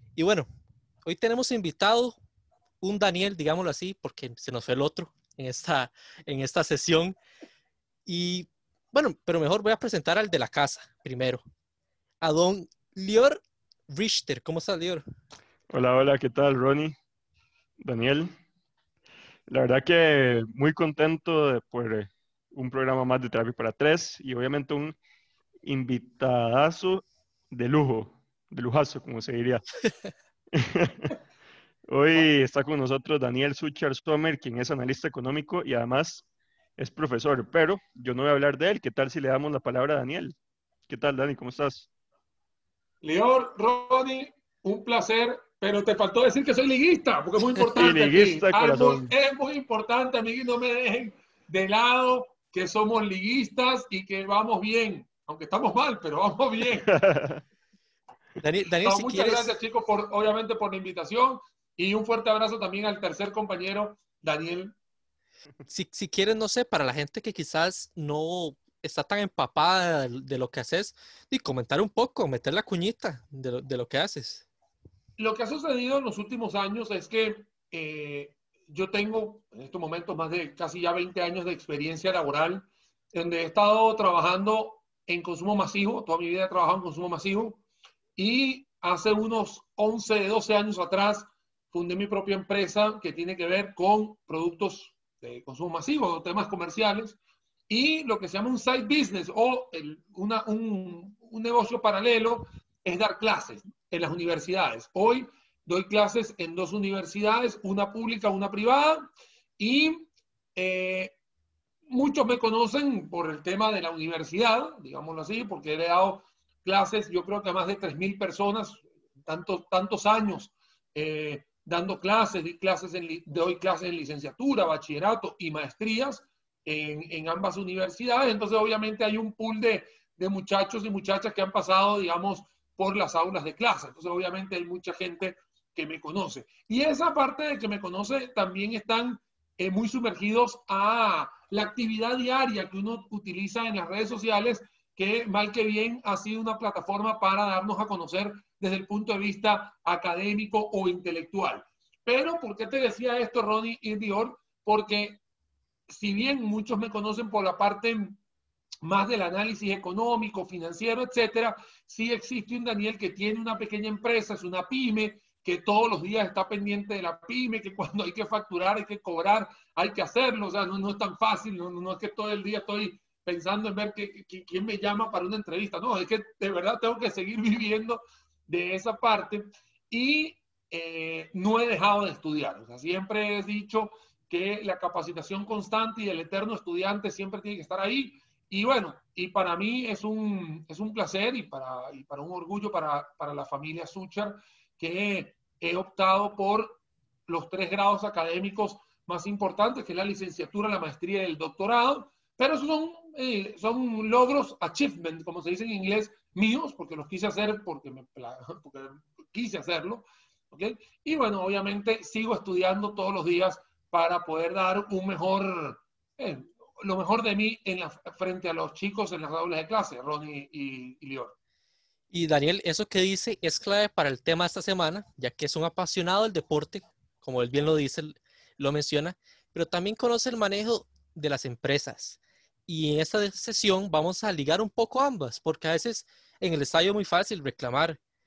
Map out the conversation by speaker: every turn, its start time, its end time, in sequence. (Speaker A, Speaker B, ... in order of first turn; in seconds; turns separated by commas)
Speaker A: 0.2-0.5, Speaker A: 1.1-2.2, Speaker A: 2.8-7.2, Speaker A: 8.1-11.4, Speaker A: 12.2-15.0, Speaker B: 15.7-16.9, Speaker B: 17.8-18.3, Speaker B: 19.5-25.0, Speaker B: 25.6-29.6, Speaker B: 30.5-31.1, Speaker B: 31.9-36.2, Speaker B: 36.8-40.4, Speaker B: 40.9-41.9, Speaker C: 43.0-56.9, Speaker B: 47.7-49.1, Speaker B: 56.9-57.4, Speaker A: 58.4-59.5, Speaker C: 58.9-64.8, Speaker A: 65.7-74.5, Speaker C: 75.2-87.6, Speaker C: 88.2-97.2, Speaker C: 97.7-109.1, Speaker C: 109.6-111.1, Speaker C: 111.9-155.2, Speaker C: 155.9-158.2, Speaker C: 158.8-221.3, Speaker A: 222.1-238.0